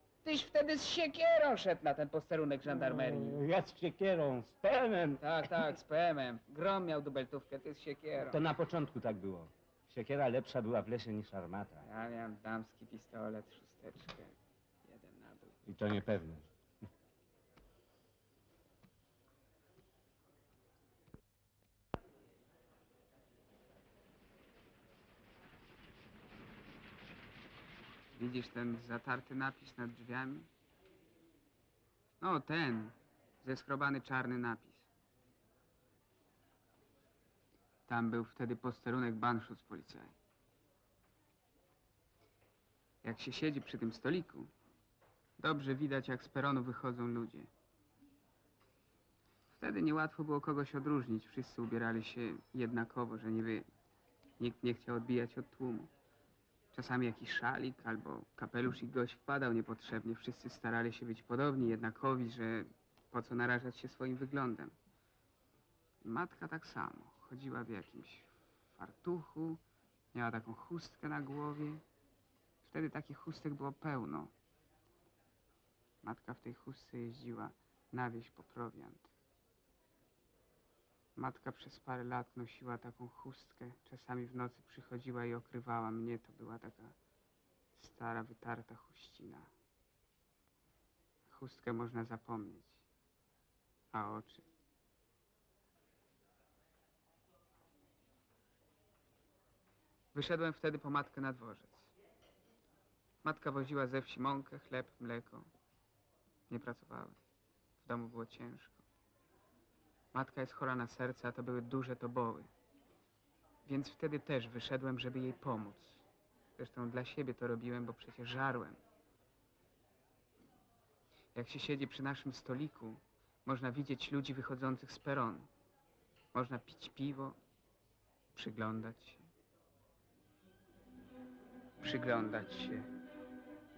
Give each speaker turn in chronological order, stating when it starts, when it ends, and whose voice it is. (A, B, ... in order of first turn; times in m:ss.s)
0:00.2-0:03.4 A
0:02.7-0:05.2 B
0:05.2-0:08.4 A
0:08.3-0:11.8 B
0:11.8-0:15.6 A
0:15.7-0:16.5 B
0:28.1-0:30.5 A
0:32.2-0:34.9 A
0:37.9-0:40.2 A
0:43.0-0:44.5 A
0:45.4-0:47.5 A
0:49.5-0:53.7 A
0:54.4-0:55.9 A
0:56.7-1:04.8 A
1:06.0-1:09.6 A
1:10.1-1:11.8 A
1:12.6-1:14.3 A
1:16.0-1:19.1 A
1:21.2-1:27.0 A
1:27.8-1:29.5 A
1:31.3-1:32.8 A
1:33.9-1:34.5 A
1:40.1-1:41.9 A
1:43.2-1:45.5 A
1:46.5-1:47.2 A
1:47.8-1:48.8 A
1:50.1-1:52.5 A
1:53.7-1:56.0 A
1:56.6-1:58.8 A
2:01.4-2:05.5 A
2:06.3-2:07.4 A
2:08.4-2:09.3 A
2:11.8-2:12.9 A